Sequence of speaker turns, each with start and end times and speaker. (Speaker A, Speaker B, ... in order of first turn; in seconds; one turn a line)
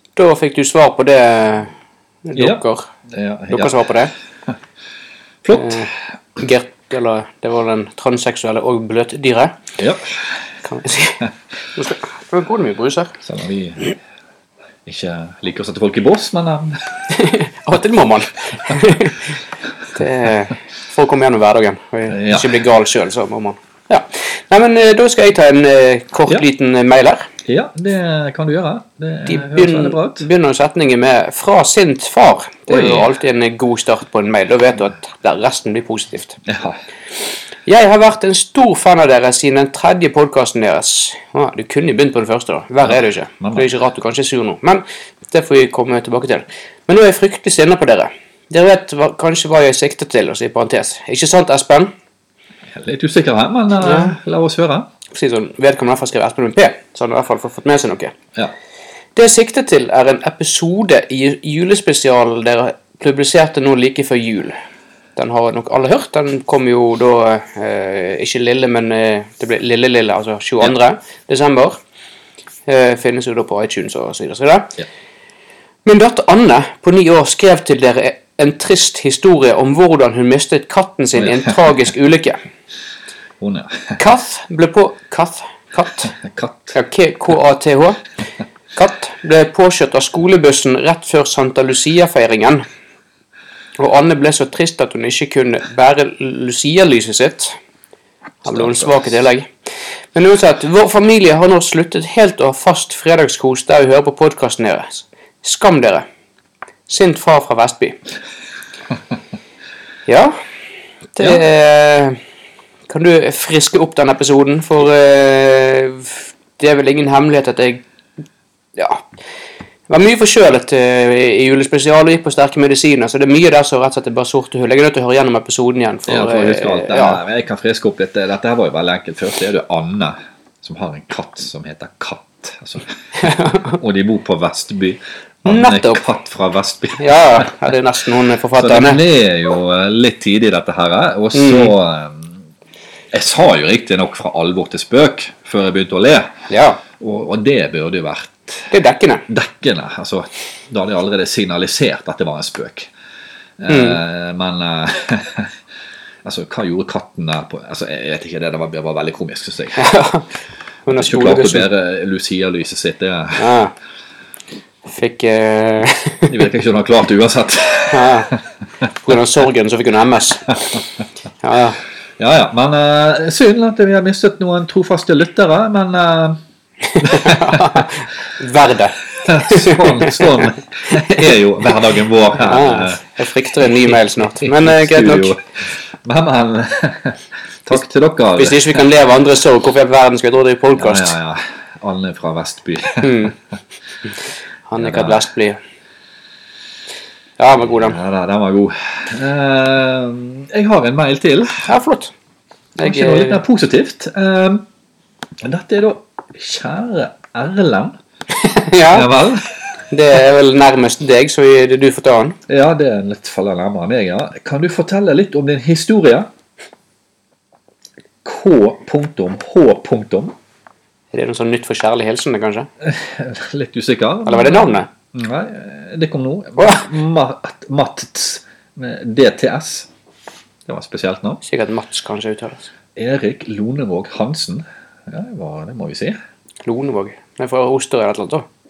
Speaker A: 0.1-1.7
Speaker A: 2.2-2.9
Speaker B: 2.3-3.8
Speaker A: 3.5-4.1
Speaker B: 5.4-5.9
Speaker A: 5.5-9.6
Speaker B: 9.8-10.2
Speaker A: 10.6-13.2
Speaker B: 13.2-14.0
Speaker B: 14.8-16.8
Speaker A: 17.1-19.3
Speaker A: 19.9-27.3
Speaker B: 22.1-22.5
Speaker B: 27.4-30.2
Speaker A: 29.2-36.4
Speaker B: 32.7-33.1
Speaker B: 36.4-36.8
Speaker A: 37.6-51.9
Speaker B: 42.8-43.7
Speaker B: 52.7-54.9
Speaker A: 53.8-54.2
Speaker A: 55.1-58.1
Speaker A: 59.1-64.6
Speaker A: 65.2-71.8
Speaker A: 72.7-74.8
Speaker A: 75.8-82.4
Speaker B: 81.2-81.5
Speaker B: 83.4-84.0
Speaker A: 84.0-86.1
Speaker B: 86.1-86.8
Speaker A: 86.7-88.0
Speaker A: 88.7-92.6
Speaker A: 93.8-97.6
Speaker A: 98.4-99.5
Speaker B: 98.5-99.1
Speaker A: 100.1-106.0
Speaker A: 106.9-108.0
Speaker A: 110.1-110.3
Speaker A: 111.1-112.2
Speaker A: 112.9-117.8
Speaker A: 118.8-119.0
Speaker A: 119.9-127.2
Speaker B: 126.1-137.5
Speaker A: 133.2-133.8
Speaker A: 135.4-136.0
Speaker A: 137.0-139.0
Speaker B: 138.6-142.4
Speaker A: 141.3-141.7
Speaker B: 143.1-146.3
Speaker A: 146.5-146.8
Speaker B: 147.0-148.7
Speaker A: 148.7-149.2
Speaker B: 149.3-152.9
Speaker B: 153.6-155.5
Speaker A: 153.7-154.0
Speaker B: 156.2-159.9
Speaker A: 159.8-160.3
Speaker A: 160.8-161.7
Speaker B: 160.9-163.5
Speaker A: 163.4-163.7
Speaker A: 164.8-166.4
Speaker B: 166.3-168.4
Speaker A: 167.9-168.3
Speaker A: 169.0-170.6
Speaker A: 171.4-171.8
Speaker B: 172.2-176.4
Speaker A: 176.9-181.3
Speaker B: 177.0-177.9
Speaker B: 179.2-183.0
Speaker A: 182.4-185.3
Speaker B: 183.6-185.4
Speaker B: 186.0-188.8
Speaker A: 188.4-191.2
Speaker B: 190.8-193.3
Speaker A: 193.0-193.3
Speaker A: 194.7-195.6
Speaker B: 194.8-195.2
Speaker A: 197.4-198.0
Speaker B: 197.7-201.7
Speaker A: 201.6-202.1
Speaker A: 202.8-203.4
Speaker B: 202.8-204.6
Speaker B: 205.4-208.0
Speaker A: 208.4-209.1
Speaker B: 208.9-209.5
Speaker A: 209.9-212.4
Speaker B: 212.5-216.3
Speaker B: 218.2-220.3
Speaker A: 221.1-222.7
Speaker B: 222.8-229.9
Speaker A: 224.2-224.9
Speaker A: 226.6-226.8
Speaker B: 230.7-231.4
Speaker A: 231.4-232.7
Speaker B: 232.9-236.2
Speaker A: 236.7-238.4